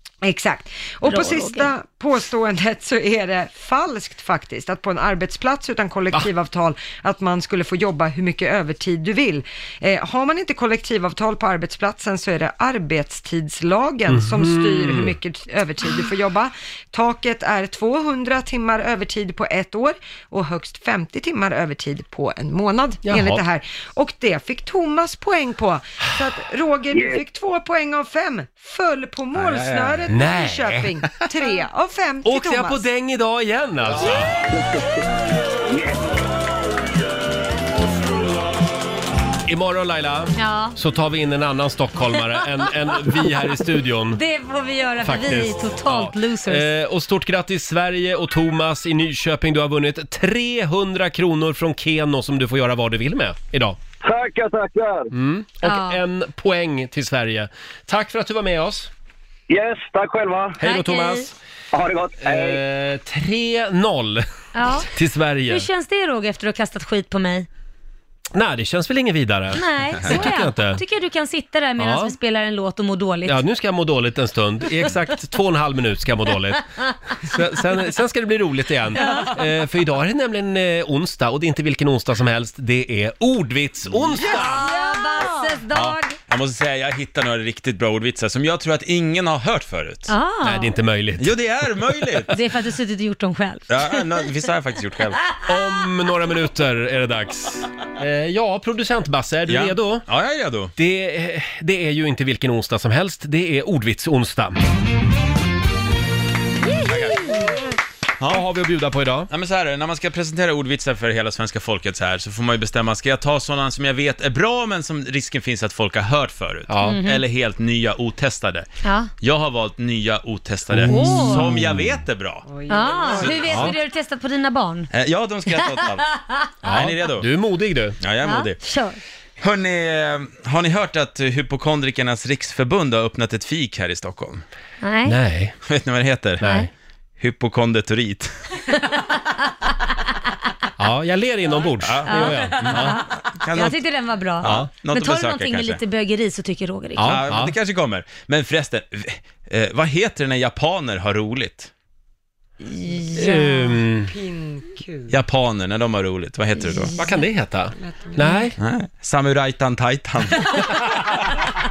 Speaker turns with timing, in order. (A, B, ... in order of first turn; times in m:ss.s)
0:00.2-0:32.8 A
0:01.0-0:01.7 B
0:14.1-0:15.1 C
0:23.0-0:23.4 C
0:26.9-0:27.2 D
0:29.3-0:30.1 E
0:30.1-0:30.9 C
0:32.2-0:34.3 C
0:34.5-0:34.8 D
0:35.7-0:36.0 D
0:39.5-0:44.2 C
0:40.4-0:40.8 B
0:44.1-0:46.7 B
0:45.0-0:53.8 C
0:54.0-0:55.1 D
0:55.1-0:58.9 C
0:55.6-0:56.0 B
0:59.5-1:00.6 D
1:00.6-1:01.3 C
1:00.6-1:01.3 B
1:01.7-1:02.6 D
1:02.2-1:04.2 C
1:04.5-1:04.9 B
1:04.9-1:05.7 C
1:05.5-1:07.5 B
1:08.3-1:10.8 C
1:09.5-1:13.4 B
1:11.8-1:12.1 C
1:13.2-1:24.6 C
1:19.0-1:19.3 B
1:23.9-1:24.2 E
1:24.2-1:26.2 B
1:24.8-1:25.3 A
1:25.7-1:30.1 E
1:30.1-1:30.7 B
1:30.4-1:32.2 C
1:31.2-1:32.3 E
1:32.3-1:34.2 B
1:33.7-1:35.2 E
1:35.5-1:40.0 C
1:39.5-1:40.7 E
1:40.8-1:44.6 C
1:46.6-1:47.6 B
1:46.8-1:47.4 E
1:48.3-1:49.3 C
1:49.3-1:58.7 E
1:56.7-1:57.0 C
1:56.8-1:57.2 B
1:58.8-1:59.1 B
1:59.2-2:02.4 E
2:00.7-2:02.0 C
2:00.9-2:01.6 B
2:02.4-2:03.6 A
2:02.7-2:04.9 B
2:03.0-2:03.7 E
2:03.4-2:03.8 C
2:04.9-2:06.0 E
2:05.5-2:06.5 B
2:06.6-2:08.0 C
2:06.6-2:07.3 E
2:08.0-2:08.6 E
2:08.2-2:09.0 B
2:09.4-2:14.4 E
2:14.8-2:15.2 B
2:15.0-2:15.5 C
2:15.6-2:16.4 E
2:16.4-2:16.7 C
2:17.2-2:18.3 E
2:20.8-2:23.0 C
2:21.8-2:23.8 E
2:22.0-2:27.2 B
2:24.4-2:25.8 E
2:24.4-2:24.7 C
2:27.0-2:27.5 C
2:27.0-2:31.7 E
2:32.6-2:35.2 A
2:33.2-2:33.8 B
2:33.2-2:34.1 C
2:35.1-2:36.9 E
2:37.0-2:38.6 C
2:37.8-2:38.2 A
2:38.2-2:38.5 B
2:38.6-2:40.5 E